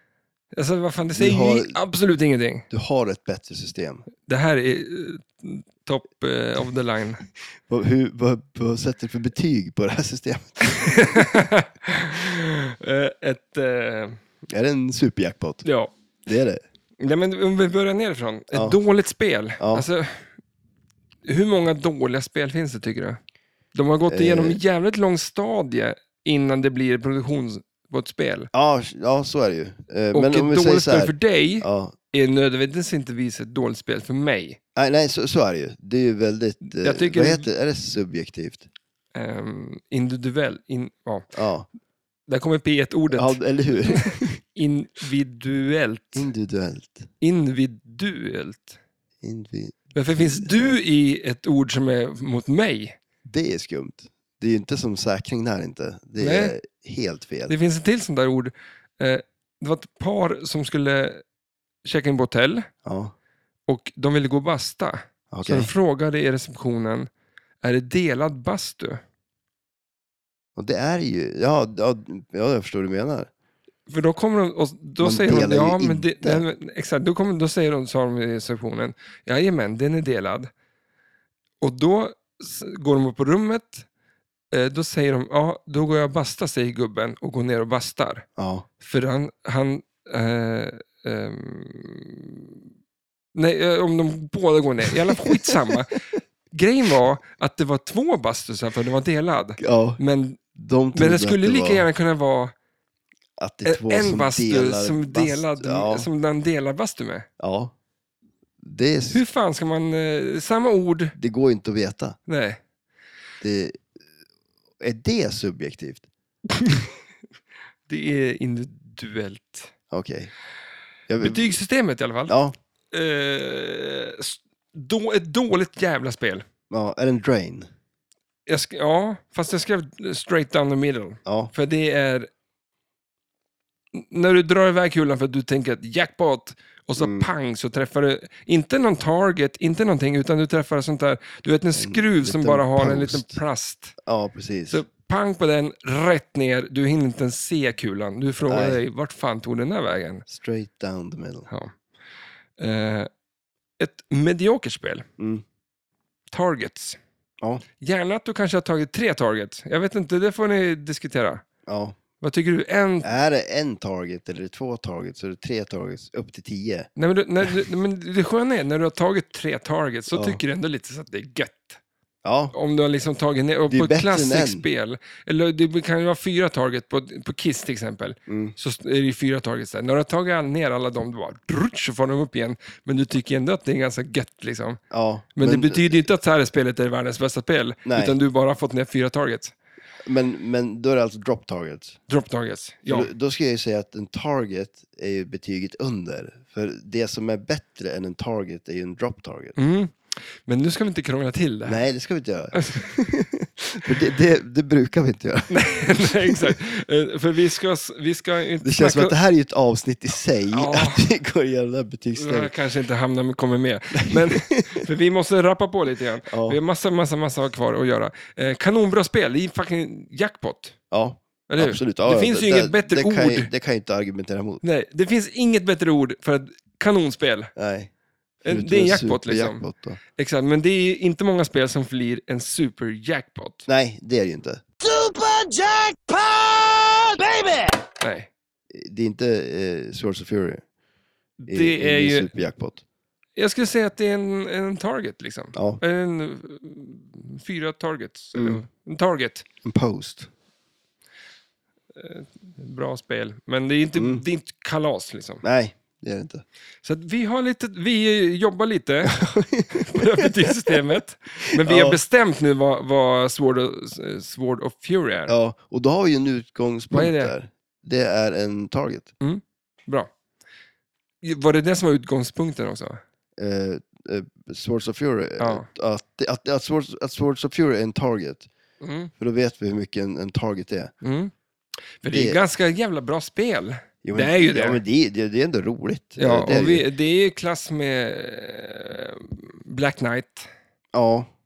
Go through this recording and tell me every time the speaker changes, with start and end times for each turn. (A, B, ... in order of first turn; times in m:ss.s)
0:00.5-0:02.7 A
0:01.2-0:01.8 B
0:02.7-0:04.0 B
0:04.3-0:07.2 A
0:07.7-0:11.3 B
0:10.6-0:14.2 A
0:14.5-0:15.6 B
0:15.6-0:15.9 A
0:16.3-0:16.6 B
0:17.0-0:20.3 A
0:18.5-0:18.8 B
0:19.6-0:19.9 B
0:21.3-0:23.2 A
0:23.7-0:28.5 A
0:24.1-0:24.6 B
0:28.5-0:32.0 B
0:30.1-0:34.6 A
0:34.8-0:38.7 B
0:36.7-0:37.5 A
0:39.2-0:41.3 A
0:41.3-0:41.7 B
0:42.3-0:46.3 A
0:43.1-0:44.4 B
0:46.1-0:47.1 B
0:47.2-0:48.8 A
0:49.2-0:50.8 B
0:50.0-0:53.0 A
0:53.2-0:57.6 B
0:56.2-0:56.6 A
0:57.5-1:01.2 A
1:01.8-1:02.7 A
1:02.8-1:03.1 B
1:03.7-1:07.1 A
1:05.3-1:05.7 B
1:07.6-1:09.0 A
1:10.6-1:13.3 B
1:13.9-1:20.5 A
1:15.0-1:16.4 B
1:21.6-1:23.9 A
1:24.5-1:28.3 A
1:28.4-1:28.6 B
1:28.8-1:32.6 A
1:33.4-1:40.4 A
1:34.9-1:35.7 B
1:39.6-1:40.0 B
1:40.5-1:41.9 B
1:40.9-1:42.5 A
1:43.4-1:46.1 B
1:43.6-1:47.3 A
1:47.4-1:47.7 B
1:48.6-1:49.2 B
1:49.1-1:51.2 A
1:51.2-1:52.2 B
1:52.3-1:52.6 A
1:53.4-1:53.9 B
1:54.8-1:56.0 B
1:56.6-1:56.9 A
1:57.9-1:59.7 A
1:59.9-2:00.3 B
2:01.1-2:01.6 B
2:01.2-2:02.4 A
2:02.3-2:02.5 B
2:02.9-2:06.5 A
2:06.7-2:07.7 B
2:08.5-2:12.3 A
2:11.2-2:11.5 B
2:13.9-2:24.0 A
2:17.0-2:17.3 B
2:21.8-2:23.4 B
2:24.0-2:24.8 B
2:24.7-2:30.2 A
2:28.5-2:28.8 B
2:30.3-2:31.5 B
2:31.5-2:31.8 A
2:32.6-2:33.1 A
2:33.8-2:35.1 A
2:35.2-2:35.4 B
2:36.3-2:37.0 A
2:37.8-2:41.4 A
2:41.7-2:42.0 B
2:42.2-2:43.1 A
2:43.0-2:46.9 B
2:47.0-2:51.8 A
2:50.1-2:50.4 B
2:52.2-2:52.5 B
2:52.5-3:04.8 A
2:53.7-2:54.6 B
2:58.3-2:58.6 B
3:04.9-3:06.1 B
3:05.4-3:09.6 A
3:07.8-3:08.2 B
3:10.0-3:12.0 B
3:12.1-3:13.1 A
3:12.9-3:19.6 B
3:19.6-3:21.8 A
3:21.7-3:26.6 B
3:22.5-3:22.9 A
3:25.5-3:29.2 A
3:28.6-3:32.5 B
3:30.5-3:31.1 A
3:32.2-3:40.8 A
3:34.0-3:34.8 B
3:36.3-3:36.6 B
3:40.9-3:44.6 B
3:41.5-3:43.5 A
3:44.6-3:47.5 A
3:47.6-3:47.9 B
3:48.4-3:49.6 A
3:48.5-3:50.0 B
3:50.2-3:53.7 A
3:53.7-3:54.6 B
3:54.8-3:57.8 C
3:58.0-3:58.3 A
3:58.7-4:00.6 B
4:01.4-4:02.3 A
4:01.5-4:02.8 B
4:03.4-4:09.4 A
4:05.6-4:05.8 B
4:08.4-4:08.6 B
4:09.6-4:10.3 B
4:12.0-4:15.4 A
4:14.0-4:14.2 B
4:15.4-4:16.4 B
4:16.8-4:25.3 A
4:19.1-4:20.8 B
4:21.6-4:22.0 B
4:25.3-4:29.1 B
4:26.9-4:27.3 A
4:29.2-4:30.1 A
4:31.2-4:33.0 A
4:33.4-4:38.5 B
4:35.4-4:35.7 A
4:38.8-4:39.1 A
4:39.2-4:40.9 B
4:41.0-4:41.3 A
4:42.0-4:44.8 A
4:42.1-4:42.4 B
4:44.0-4:46.9 B
4:46.2-4:50.5 A
4:50.9-4:51.3 B